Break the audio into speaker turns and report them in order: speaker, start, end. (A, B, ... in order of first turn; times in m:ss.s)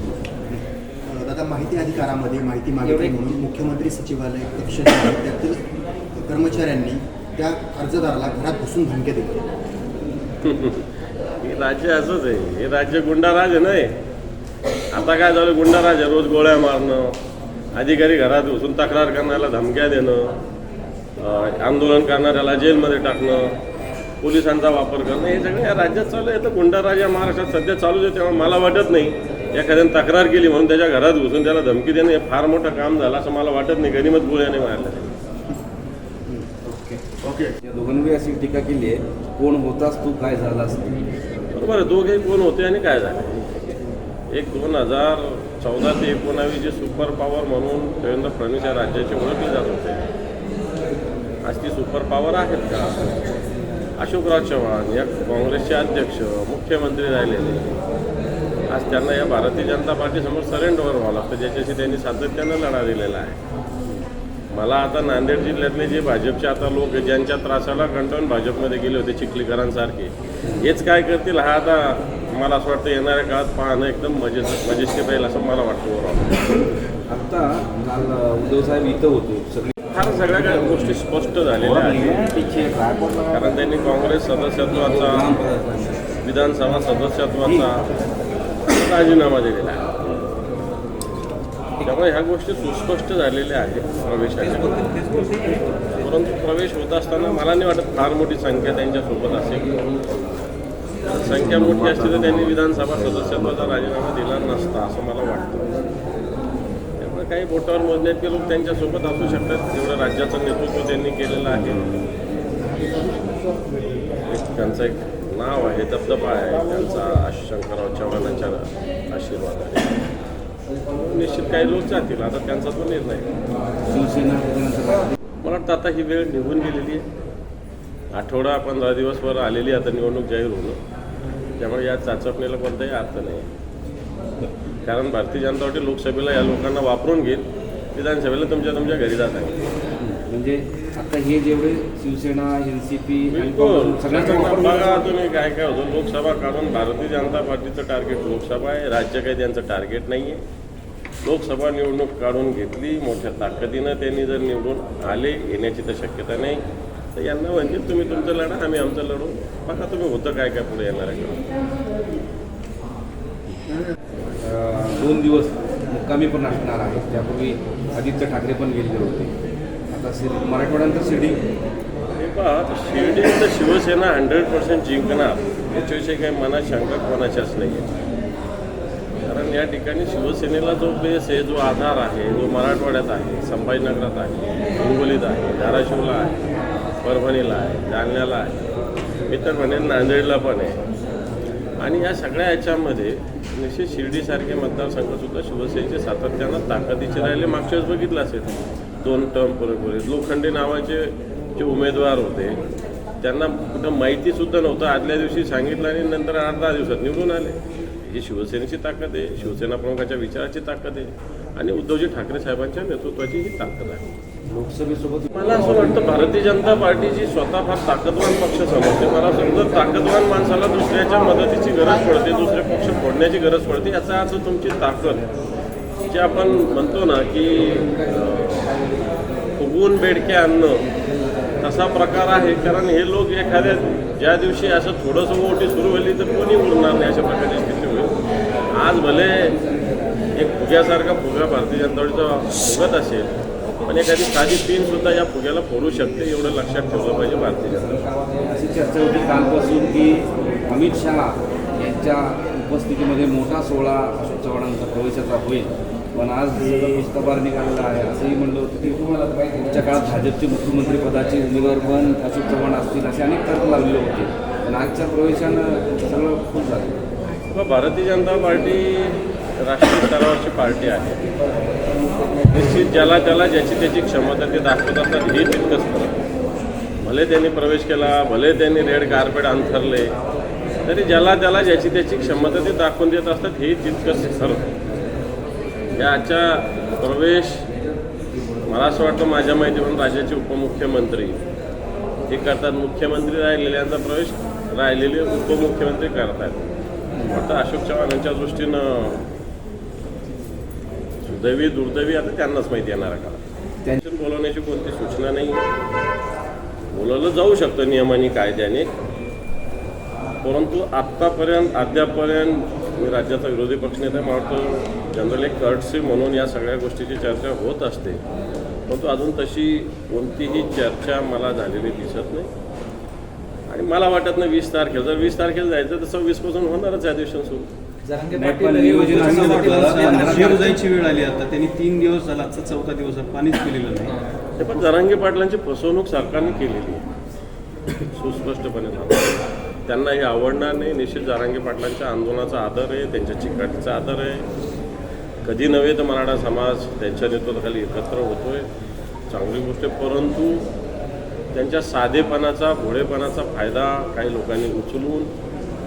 0:00.5-0:09.4 A
0:02.8-0:03.2 B
0:10.4-0:14.0 C
0:14.9-0:17.2 C
0:17.8-0:20.3 C
0:21.2-0:23.6 C
0:24.2-0:35.2 C
0:36.4-0:37.0 B
0:37.2-0:37.5 A
0:37.6-0:41.1 B
0:41.6-0:43.7 C
0:44.3-0:50.0 C
0:51.4-0:53.2 C
0:54.0-0:57.8 C
0:58.7-1:03.4 C
1:04.5-1:16.6 C
1:17.1-1:19.7 B
1:19.9-1:22.4 C
1:21.6-1:23.6 B
1:23.3-1:25.3 C
1:24.7-1:26.0 B
1:26.2-1:27.9 C
1:28.7-1:29.9 C
1:31.8-1:34.8 C
1:34.4-1:36.1 D
1:36.0-1:40.5 C
1:41.1-1:45.7 C
1:41.2-1:43.9 B
1:47.0-1:51.9 C
1:51.7-1:52.1 B
1:54.3-1:59.9 C
2:00.9-2:03.3 C
2:03.9-2:05.2 B
2:05.4-2:07.0 C
2:08.1-2:10.8 C
2:11.6-2:13.5 C
2:14.8-2:19.6 C
2:20.0-2:24.9 B
2:23.3-2:30.4 C
2:31.2-2:36.6 C
2:37.2-2:41.4 C
2:44.4-2:49.3 B
2:49.9-2:51.4 B
2:52.2-2:57.9 C
2:59.2-3:06.4 C
3:07.0-3:08.7 C
3:09.3-3:10.8 C
3:11.8-3:22.6 C
3:23.2-3:34.0 C
3:34.5-3:35.3 B
3:35.3-3:45.3 C
3:46.1-3:48.8 C
3:49.6-3:50.9 C
3:51.6-3:58.1 C
3:58.7-3:59.6 C
4:00.4-4:08.0 C
4:07.9-4:27.0 B
4:27.5-4:31.2 C
4:32.5-4:36.1 C
4:37.0-4:40.2 C
4:40.8-4:44.7 C
4:45.9-4:47.6 C
4:48.7-4:51.4 C
4:52.3-4:56.6 C
4:57.3-4:59.2 C
5:01.2-5:03.4 C
5:04.0-5:05.6 C
5:06.9-5:08.9 C
5:10.4-5:18.2 C
5:18.9-5:22.5 C
5:23.7-5:27.7 C
5:28.0-5:30.8 D
5:28.3-5:30.8 B
5:29.1-5:34.1 E
5:34.6-5:37.0 C
5:38.0-5:44.4 C
5:45.4-5:48.7 C
5:49.3-5:50.6 C
5:51.5-5:55.3 C